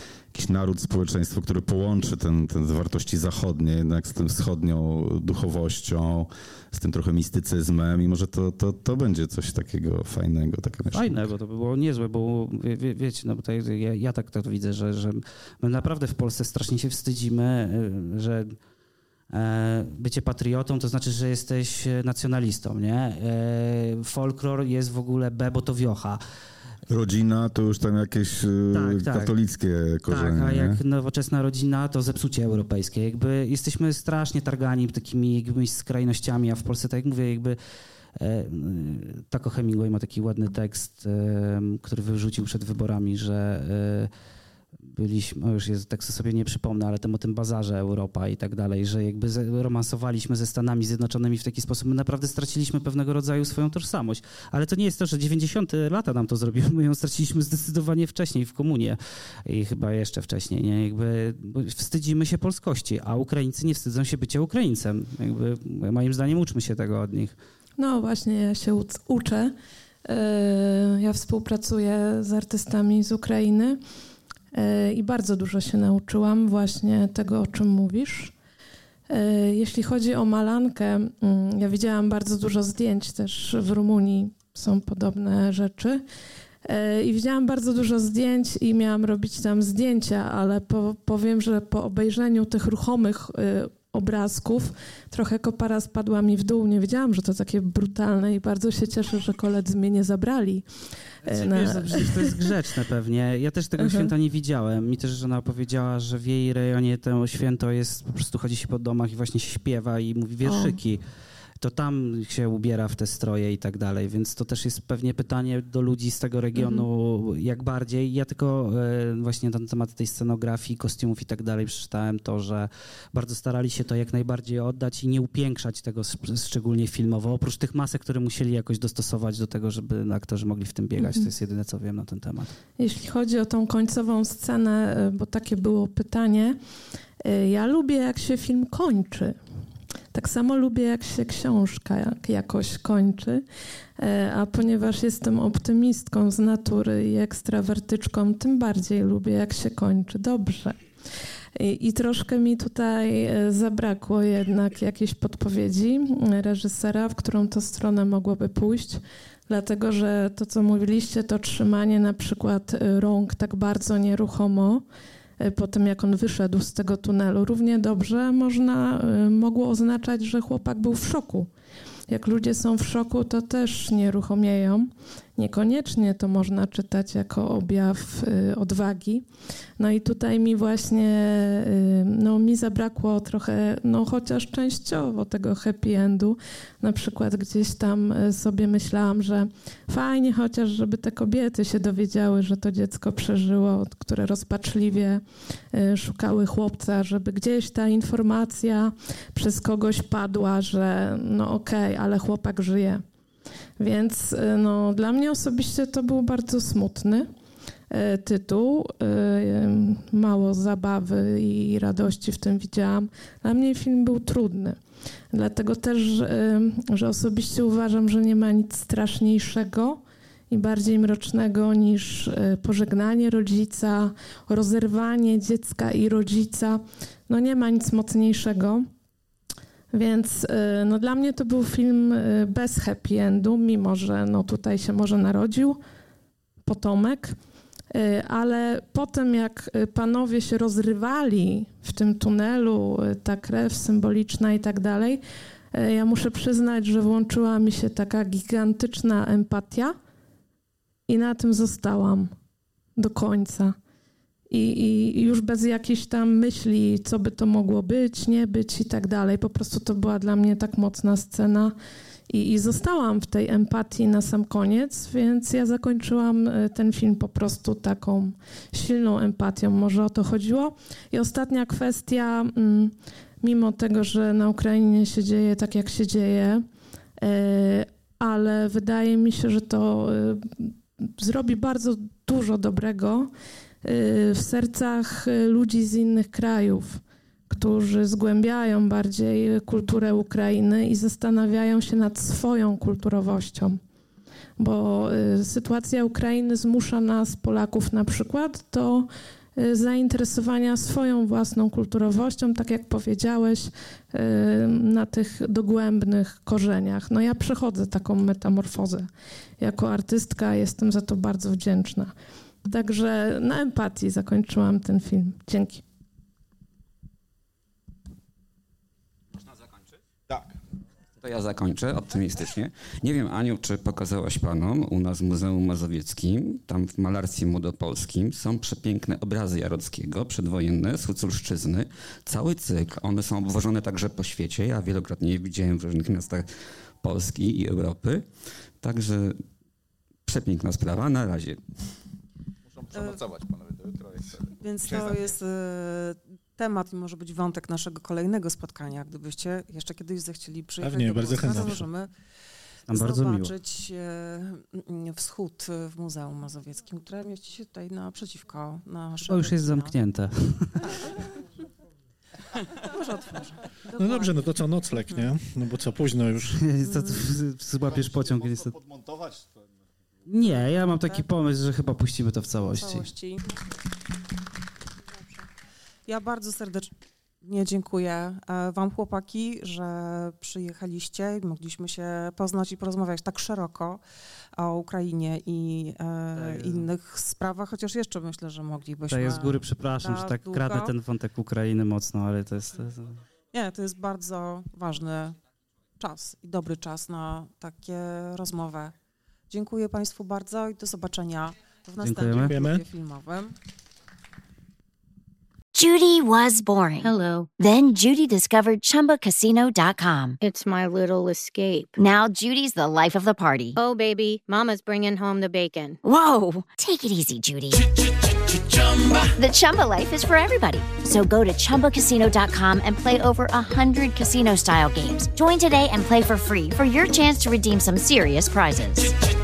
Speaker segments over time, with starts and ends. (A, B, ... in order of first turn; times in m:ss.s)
0:00.3-0:11.3 A
0:10.9-0:18.6 B
0:19.3-0:26.2 B
0:26.9-0:30.8 A
0:28.7-0:29.3 B
0:30.1-0:37.6 B
0:38.2-0:44.1 B
0:44.9-1:07.4 B
1:07.8-1:09.5 C
1:10.1-1:13.8 C
1:14.5-1:18.3 C
1:19.1-1:26.0 C
1:26.6-1:42.6 C
1:41.3-1:51.0 B
1:43.8-1:44.1 C
1:50.4-1:50.8 C
1:51.6-2:12.5 B
1:56.5-1:56.9 C
2:11.0-2:11.3 C
2:12.8-2:16.6 C
2:17.2-2:19.4 C
2:20.1-2:23.4 C
2:24.0-2:30.8 C
2:31.6-2:44.8 C
2:45.4-2:51.5 C
2:52.1-2:59.2 C
2:59.8-3:23.0 C
3:23.8-3:27.3 C
3:27.9-3:34.8 C
3:35.3-3:48.9 C
3:49.9-3:55.8 C
3:56.6-3:57.4 C
3:57.9-4:05.2 C
4:05.7-4:10.0 C
4:11.1-4:12.3 C
4:13.0-4:13.8 C
4:14.5-4:21.8 C
4:22.3-4:36.6 C
4:37.2-4:43.3 C
4:43.8-4:53.8 C
4:54.6-5:12.1 C
5:12.7-5:15.8 C
5:21.2-5:36.5 D
5:37.0-5:38.2 D
5:38.8-5:39.4 D
5:40.2-5:41.6 D
5:42.9-5:43.2 E
5:43.1-5:44.3 A
5:44.6-5:52.1 E
5:50.8-5:51.9 F
5:52.9-5:53.5 B
5:52.9-6:00.0 E
5:59.3-6:01.0 B
6:02.7-6:04.5 E
6:04.0-6:06.6 F
6:06.5-6:08.8 B
6:10.3-6:13.1 B
6:10.4-6:11.3 E
6:12.7-6:13.4 E
6:16.1-6:24.0 E
6:24.6-6:30.9 E
6:26.3-6:26.9 B
6:29.1-6:33.2 B
6:33.5-6:35.4 E
6:36.0-6:39.0 E
6:39.5-6:43.6 E
6:42.0-6:42.5 B
6:42.4-6:42.8 F
6:45.8-6:50.4 G
6:47.0-6:47.5 H
6:50.4-6:51.9 H
6:52.0-6:53.8 G
6:53.8-6:56.0 H
6:56.0-6:57.9 G
6:59.3-7:09.2 G